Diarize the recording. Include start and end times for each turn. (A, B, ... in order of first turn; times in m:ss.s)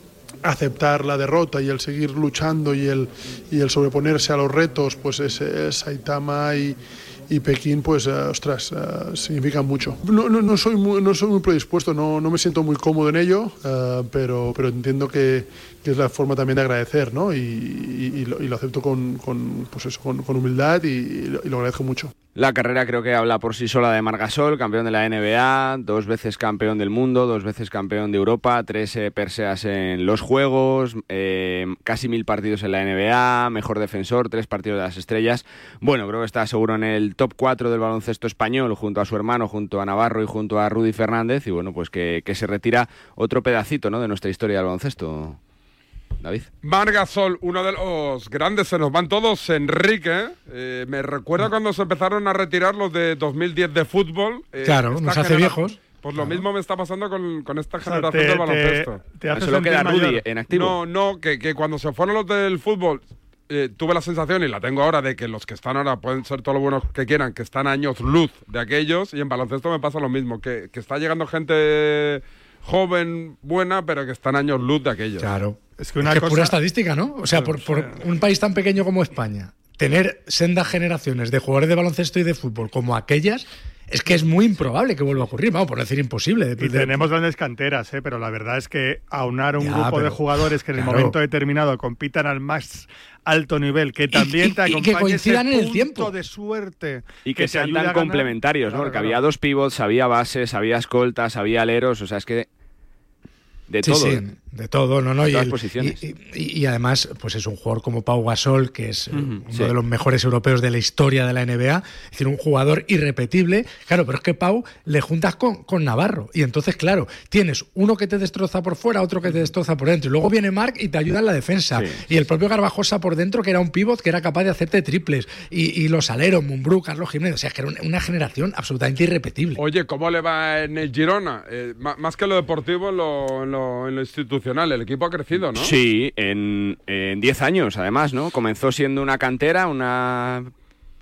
0:00.4-0:06.8 A
0:07.3-0:22.1 A
0:22.4-0:45.4 B
0:46.2-0:46.5 B
0:46.6-0:59.1 C
0:54.6-0:55.8 D
0:57.8-1:00.2 E
0:59.3-1:00.8 B
1:00.5-1:15.3 C
1:15.2-1:27.1 D
1:15.8-1:16.6 E
1:17.3-1:18.0 E
1:26.6-1:39.2 E
1:29.6-1:31.2 D
1:34.1-1:36.1 D
1:37.2-1:42.5 B
1:43.7-1:44.2 B
1:43.8-2:09.6 D
1:45.3-1:46.0 B
1:49.1-1:49.8 B
2:09.6-2:15.8 C
2:15.5-2:20.5 B